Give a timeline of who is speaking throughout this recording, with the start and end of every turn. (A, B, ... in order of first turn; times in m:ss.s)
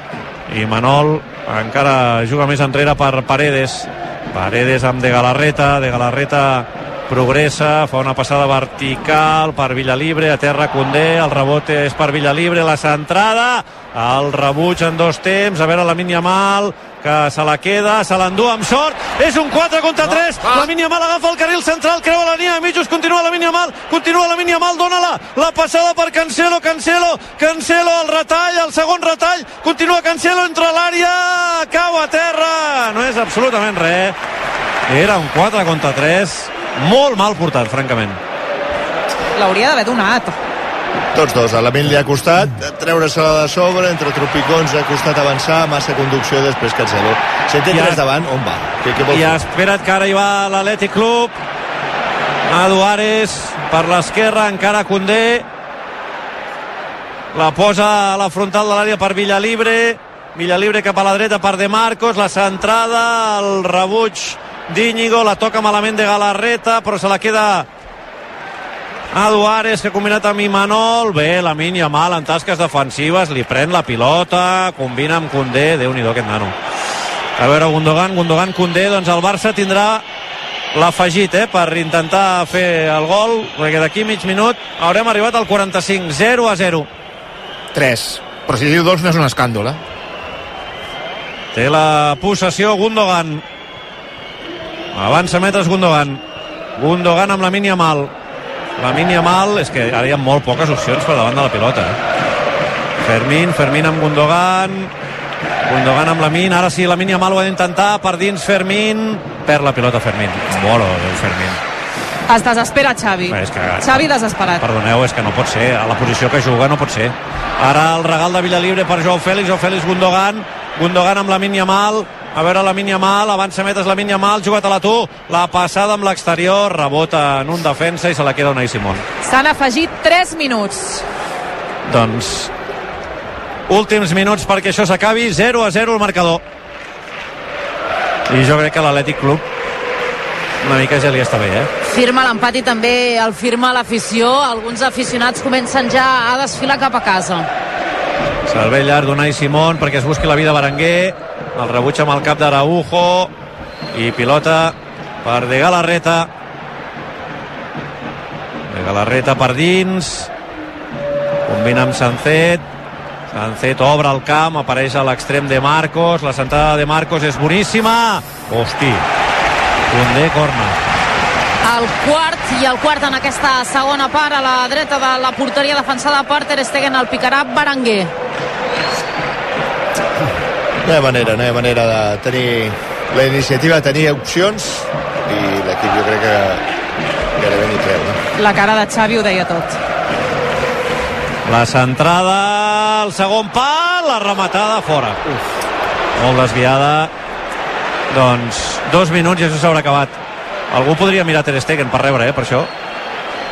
0:00.5-0:34.2 A
0:34.9-0:38.2 A
0:39.4-0:40.4 B
0:41.1-0:49.4 C
0:47.7-0:48.0 A
0:49.1-0:51.4 A
0:52.5-0:55.4 A
0:57.3-1:07.7 A
1:09.1-1:16.6 A
1:17.4-1:20.0 A
1:20.7-1:26.9 A
1:27.7-1:29.8 D
1:31.5-1:33.4 A
1:34.9-1:36.2 A
1:36.8-1:38.1 A
1:38.8-1:42.0 A
1:43.0-1:44.9 A
1:45.7-1:51.6 A
1:52.3-1:54.6 B
1:53.3-1:54.0 A
1:54.6-2:09.0 A
2:09.2-2:11.0 B
2:11.9-2:12.5 A
2:13.7-2:16.4 A
2:18.3-2:19.4 A
2:20.6-2:21.7 A
2:21.8-2:27.5 E
2:28.5-2:33.3 A
2:33.9-2:36.3 A
2:38.7-2:40.3 A
2:41.5-2:42.6 A
2:43.3-2:49.1 A
2:49.9-2:50.8 A
2:51.6-2:58.1 E
3:00.8-3:06.6 C
3:07.4-3:08.2 C
3:08.4-3:09.8 B
3:11.5-3:15.2 A
3:16.2-3:17.1 A
3:18.1-3:20.2 A
3:20.7-3:22.7 A